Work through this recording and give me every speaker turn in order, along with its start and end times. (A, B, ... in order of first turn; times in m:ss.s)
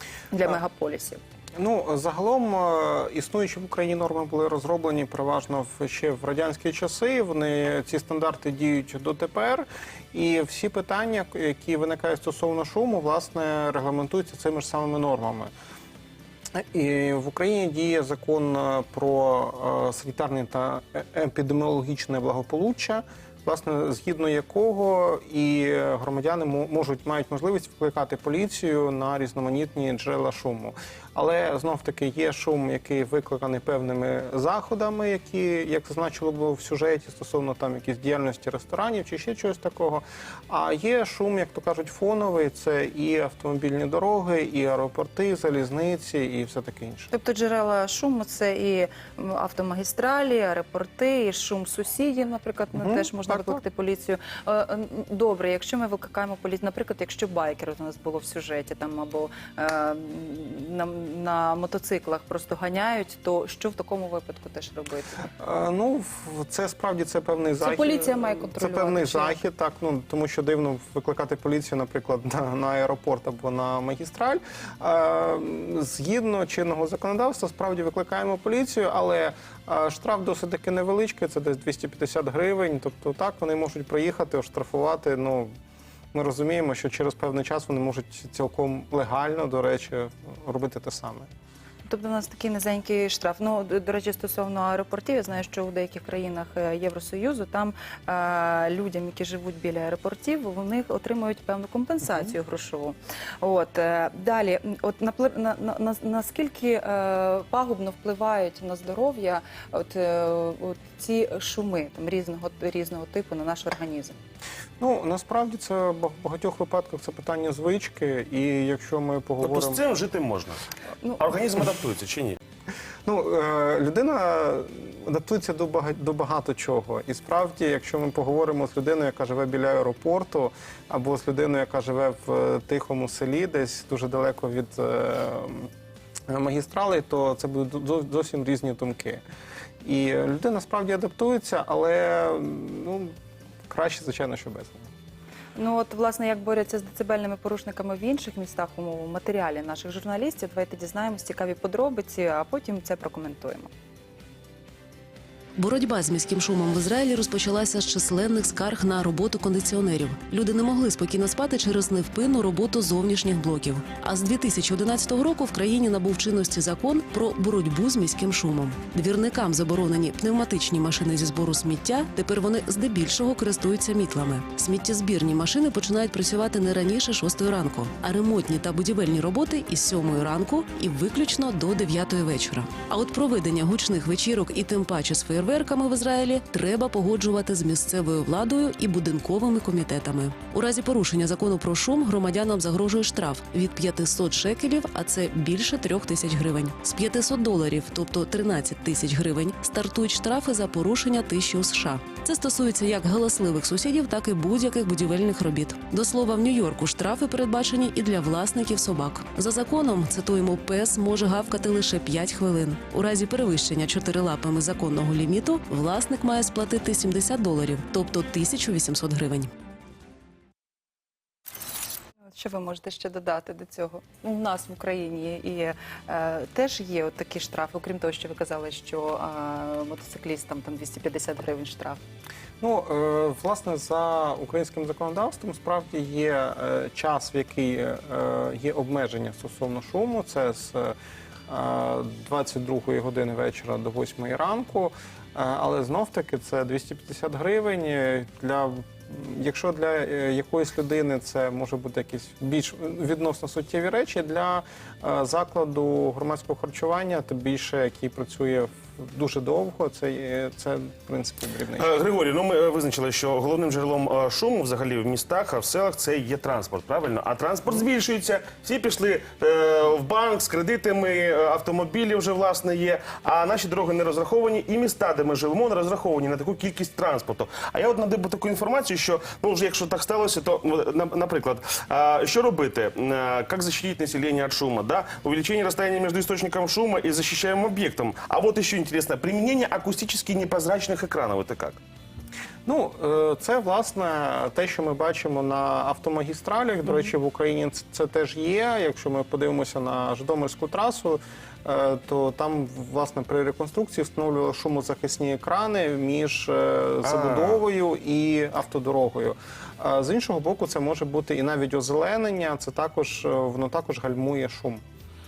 0:00.3-0:01.2 A
0:01.6-0:15.5 B
0:16.5-0:47.1 B
0:47.1-1:05.3 A
0:52.7-0:53.6 B
1:05.4-1:25.5 B
1:07.6-1:09.4 A
1:26.1-1:31.3 B
1:31.9-1:54.2 A
1:54.8-1:59.8 B
1:59.4-2:00.6 C
2:01.2-2:02.4 C
2:03.0-2:15.7 B
2:16.3-2:19.2 B
2:19.8-2:23.1 B
2:23.7-2:24.9 B
2:25.6-2:33.7 A
2:35.6-3:39.5 D
3:42.2-3:52.0 A
3:52.6-4:01.0 B
4:01.5-4:21.9 B
4:21.8-4:51.8 C
4:52.6-5:14.8 B
5:07.0-5:07.6 C